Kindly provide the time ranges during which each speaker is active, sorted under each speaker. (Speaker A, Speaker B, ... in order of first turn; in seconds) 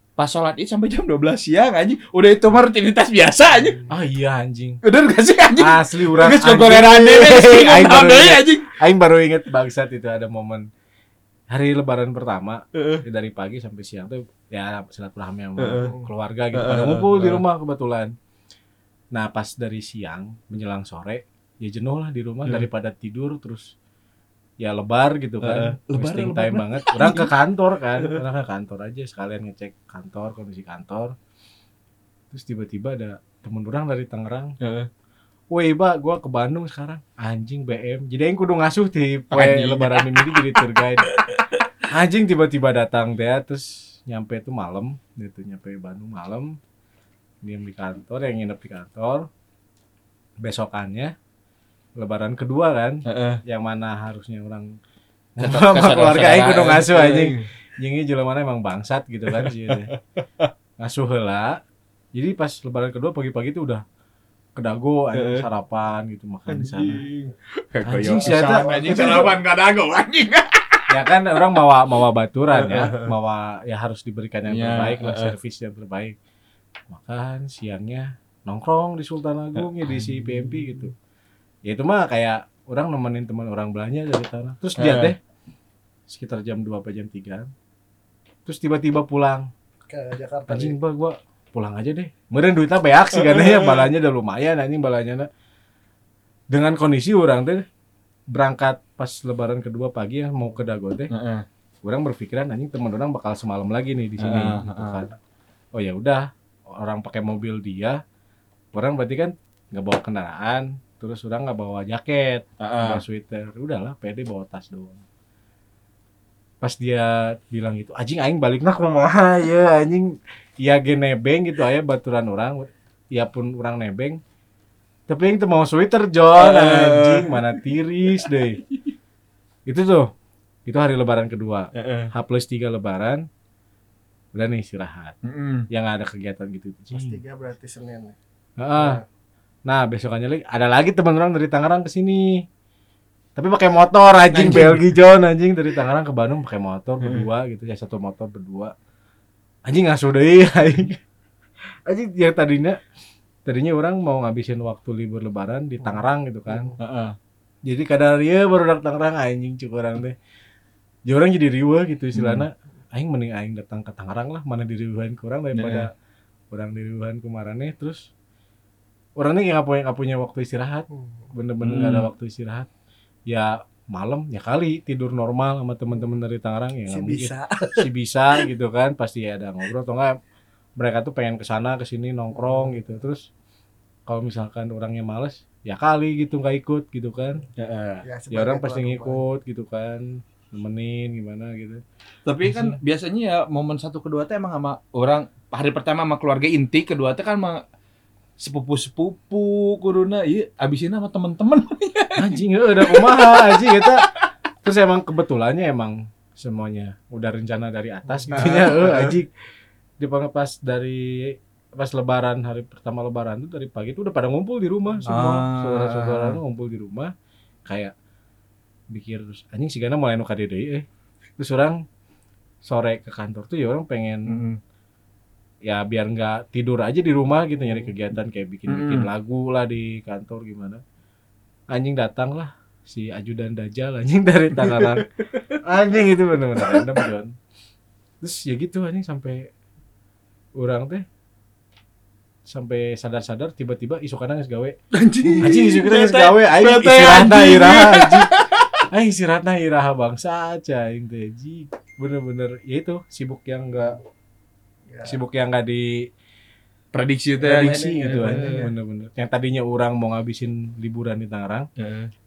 Speaker A: 0.2-3.9, 4.8-8.7, 12.7-13.0, 15.6-15.9, 16.5-17.4, 25.4-27.3, 34.6-34.9, 39.3-41.6, 53.0-53.4, 55.4-57.5, 59.3-60.5, 65.1-65.5, 66.5-71.4, 72.5-73.1, 74.5-75.3, 79.5-80.9, 84.8-85.1, 93.2-93.9, 101.1-101.4, 104.2-105.0, 112.6-113.0, 126.3-127.6, 131.7-132.1, 135.2-135.7, 144.3-144.8, 156.8-157.2, 162.1-162.4, 165.5-165.9, 171.6-172.1, 187.6-188.1, 192.2-197.6, 198.4-204.3, 208.3-209.2, 215.0-216.4, 224.3-224.6, 228.7-229.1, 234.6-235.6, 236.6-237.1, 244.9-248.8, 256.9-258.7, 261.8-262.1
Speaker B: 3.9-4.8, 5.6-10.7, 11.5-18.1, 19.1-23.7, 24.6-31.1, 32.3-34.5, 35.5-41.1, 41.8-46.6, 47.4-49.3, 50.4-51.1, 52.0-54.8, 55.4-59.9, 60.8-61.6, 62.1-63.8, 64.5-67.0, 67.8-69.3, 70.9-76.2, 76.9-80.9, 81.7-85.2, 86.1-87.5, 88.5-89.5, 90.5-95.3, 96.5-97.6, 98.3-101.1, 101.8-105.2, 105.7-108.0, 108.7-115.0, 116.6-124.2, 125.1-128.6, 129.7-130.1, 130.7-133.2, 134.3-135.1, 135.7-137.2, 138.6-139.0, 139.7-142.4, 143.4-148.7, 149.7-151.0, 151.9-152.8, 153.4-156.7, 157.6-160.2, 161.1-165.9, 166.5-168.1, 169.2-172.7, 173.3-180.2, 180.8-183.3, 184.1-187.4, 188.3-191.8, 192.4-192.8, 202.2-204.1, 204.6-209.3, 210.0-217.1, 217.7-217.9, 218.9-220.8, 221.4-221.8, 222.6-224.4, 225.6-230.8, 231.7-235.1, 235.6-237.3, 238.2-239.5, 240.6-241.0, 242.5-244.8, 245.4-248.3, 248.9-254.0, 255.0-256.1, 257.4-261.7
Speaker C: 68.3-69.3, 89.9-90.8, 136.9-138.2, 138.8-139.0, 176.9-177.9, 188.0-189.2, 254.9-255.2, 258.2-258.7